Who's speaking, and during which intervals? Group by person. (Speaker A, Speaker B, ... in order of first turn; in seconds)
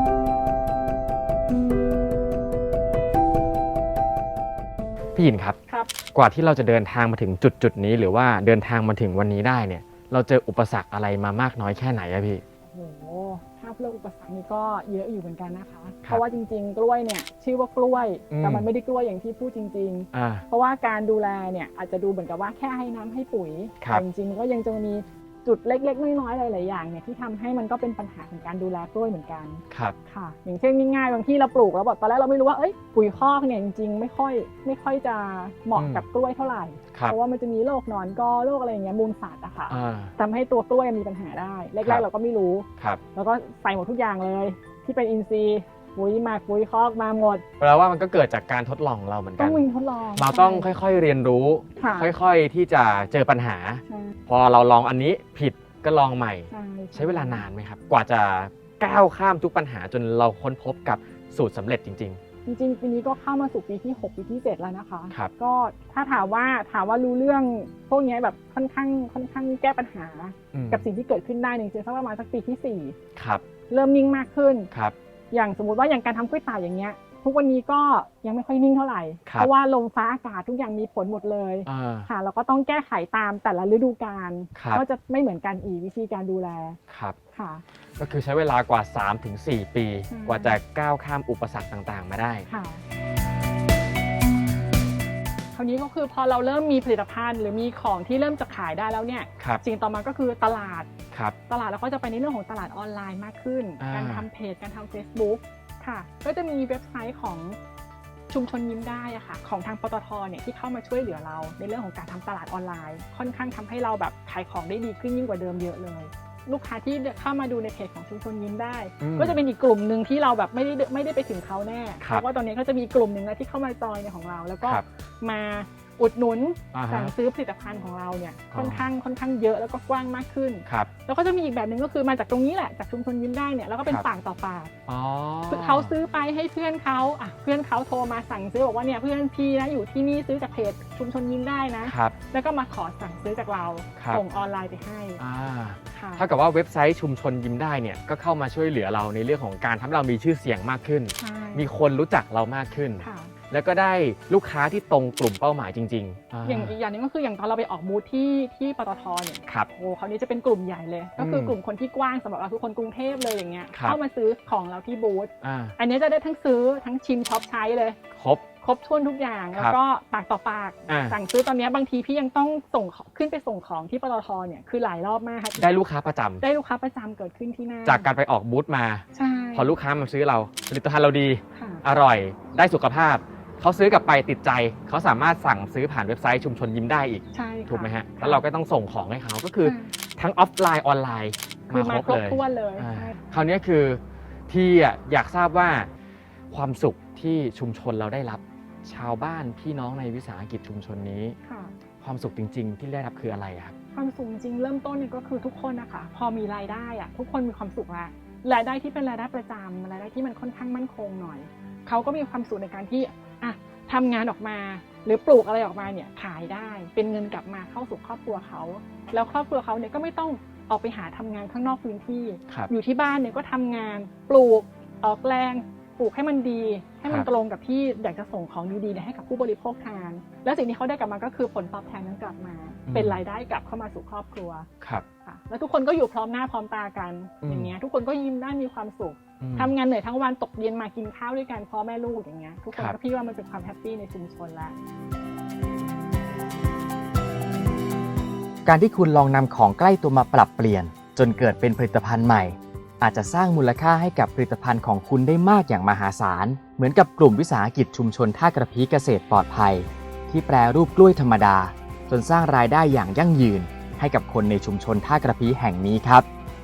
Speaker A: 5.1-5.5, 6.1-12.4, 18.3-18.6, 20.1-20.4, 29.7-29.9, 35.8-36.0, 39.7-40.1, 47.6-49.6, 50.2-62.2, 70.5-70.8, 73.2-73.4, 81.7-82.1, 84.5-84.8, 86.9-87.2, 88.0-92.5, 103.8-104.2, 119.0-119.4, 126.7-127.1, 128.5-128.9, 134.9-135.9, 141.8-142.1, 145.2-156.7, 161.2-161.6, 165.4-165.7, 168.2-168.4, 170.9-171.2, 175.6-176.4, 177.8-179.0, 179.6-195.9, 196.5-201.3, 202.0-203.7, 232.9-233.2, 237.4-237.7, 239.4-239.7
Speaker B: 12.7-47.4, 49.4-50.7, 51.8-52.1, 53.9-54.1, 56.5-57.5, 62.5-73.0, 73.7-74.7, 75.3-86.8, 87.3-87.6, 90.1-90.6, 92.5-92.8, 95.5-100.9, 101.5-107.6, 108.3-134.7, 135.5-145.2, 145.9-146.3, 151.2-151.7, 153.0-153.3, 156.4-168.0, 168.6-175.8, 176.4-178.1, 179.1-179.7, 181.5-181.8, 187.3-188.4, 189.6-189.9, 191.7-193.3, 201.4-201.7, 203.9-234.7, 235.2-244.7
Speaker C: 248.7-266.2